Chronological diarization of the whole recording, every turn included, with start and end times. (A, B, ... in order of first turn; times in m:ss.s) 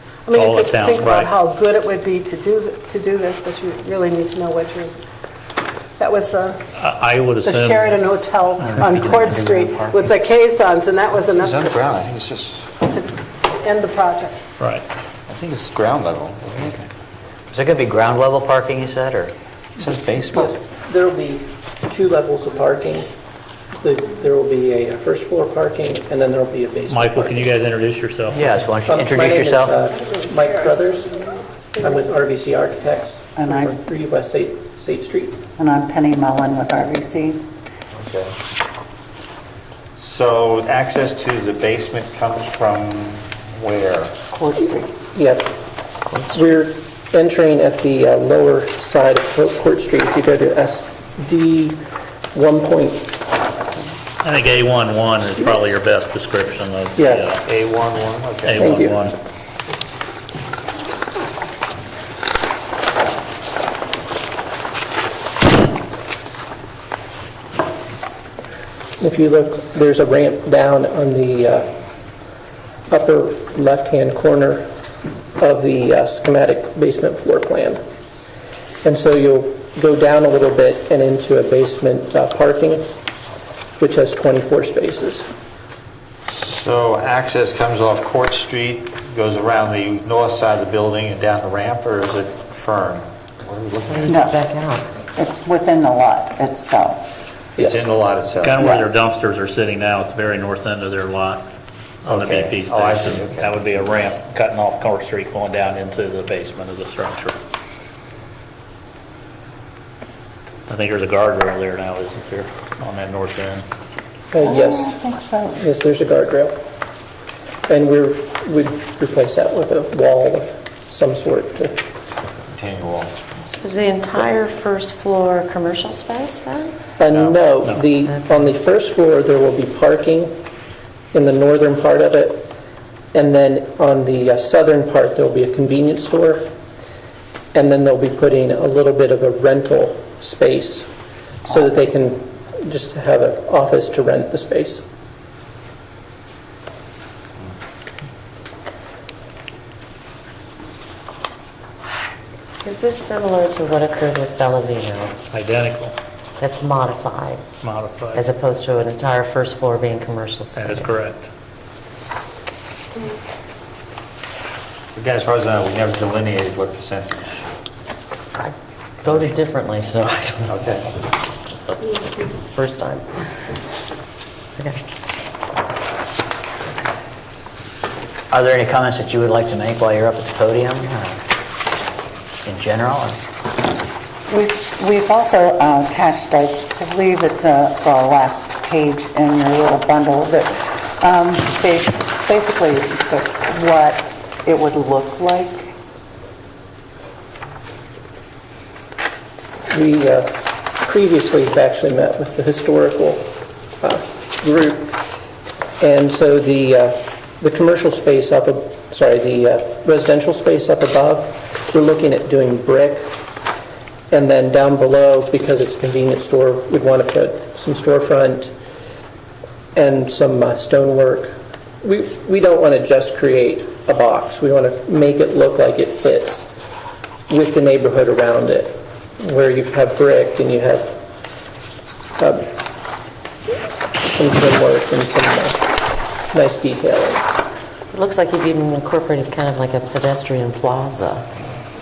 0:00.3-0:04.9 A
0:00.3-0:01.3 B
0:06.0-0:06.6 A
0:06.7-0:08.0 B
0:07.4-0:11.8 A
0:08.7-0:08.9 B
0:09.4-0:10.0 C
0:11.3-0:12.8 D
0:12.9-0:14.4 A
0:14.6-0:14.8 B
0:15.3-0:16.8 D
0:17.5-0:19.3 C
0:19.8-0:20.6 D
0:20.3-0:23.1 E
0:23.8-0:27.5 E
0:26.9-0:28.4 B
0:28.3-0:29.7 C
0:28.8-0:31.1 E
0:30.8-0:31.8 A
0:31.8-0:35.4 E
0:33.4-0:33.8 F
0:35.6-0:37.4 F
0:38.0-0:38.3 D
0:40.0-0:44.1 D
0:44.3-0:44.9 F
0:45.1-0:45.5 E
0:46.3-0:51.8 E
0:52.3-0:53.1 E
0:54.2-0:57.4 B
0:57.0-0:57.3 E
0:57.4-0:58.7 D
0:58.4-0:59.2 B
0:58.6-0:59.0 E
1:09.0-1:11.7 E
1:12.9-1:14.7 E
1:15.4-1:17.8 E
1:18.8-1:22.8 E
1:23.8-1:25.2 E
1:26.3-1:34.2 D
1:33.9-1:34.9 G
1:34.1-1:34.4 F
1:35.2-1:37.1 F
1:37.6-1:38.6 D
1:38.4-1:41.5 B
1:38.6-1:38.9 F
1:42.0-1:43.6 D
1:42.0-1:47.3 B
1:50.7-1:53.6 B
1:54.3-1:55.0 E
1:54.4-1:55.6 F
1:55.6-1:56.5 E
1:57.7-2:01.8 E
2:02.5-2:03.1 D
2:03.4-2:06.7 G
2:07.0-2:10.3 E
2:07.2-2:07.8 B
2:08.0-2:08.5 G
2:11.1-2:12.5 E
2:13.1-2:16.5 E
2:17.5-2:20.9 E
2:21.4-2:24.8 E
2:32.6-2:35.2 G
2:35.3-2:35.9 B
2:36.4-2:37.5 G
2:37.6-2:38.2 B
2:38.1-2:41.0 G
2:40.5-2:41.3 B
2:44.9-2:47.5 D
2:48.4-2:50.6 G
2:50.5-2:50.9 D
2:52.4-2:53.3 G
2:58.3-3:01.2 C
3:02.4-3:03.2 C
3:04.3-3:15.7 F
3:19.7-3:24.9 E
3:25.8-3:33.1 E
3:34.1-3:38.5 E
3:39.7-3:46.5 E
3:47.3-3:51.0 E
3:52.2-3:52.5 E
3:54.0-3:55.6 E
3:56.3-3:57.2 E
3:57.9-4:01.5 G